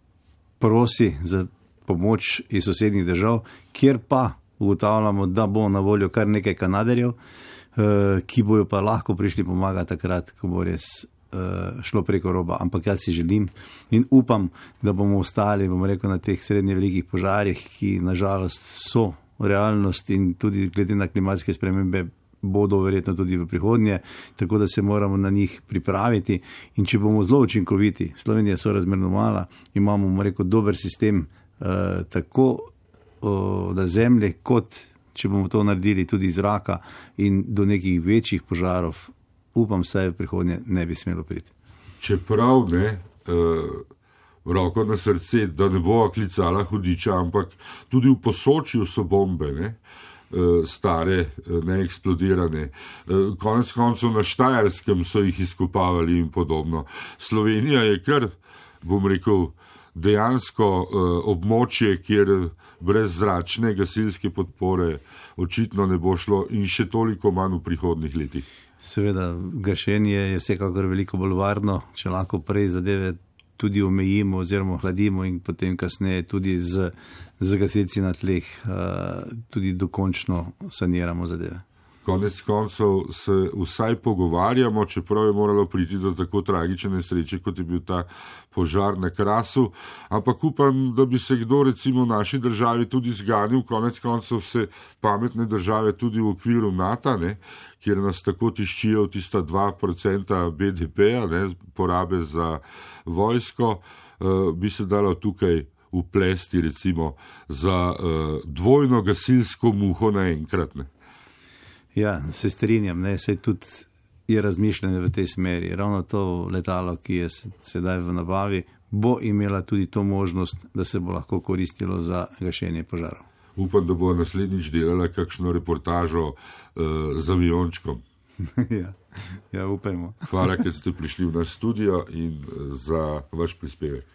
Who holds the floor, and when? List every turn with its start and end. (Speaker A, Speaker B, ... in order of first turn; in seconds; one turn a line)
Speaker A: 0.6-7.2
Speaker A: 7.8-32.7
Speaker A: 33.2-41.5
Speaker B: 42.0-43.9
Speaker B: 44.5-49.8
Speaker B: 50.3-58.3
Speaker B: 58.8-68.5
Speaker A: 68.8-81.6
Speaker B: 82.0-110.9
Speaker A: 112.0-123.2
Speaker B: 123.6-128.0
Speaker A: 128.5-130.3
Speaker B: 130.3-134.1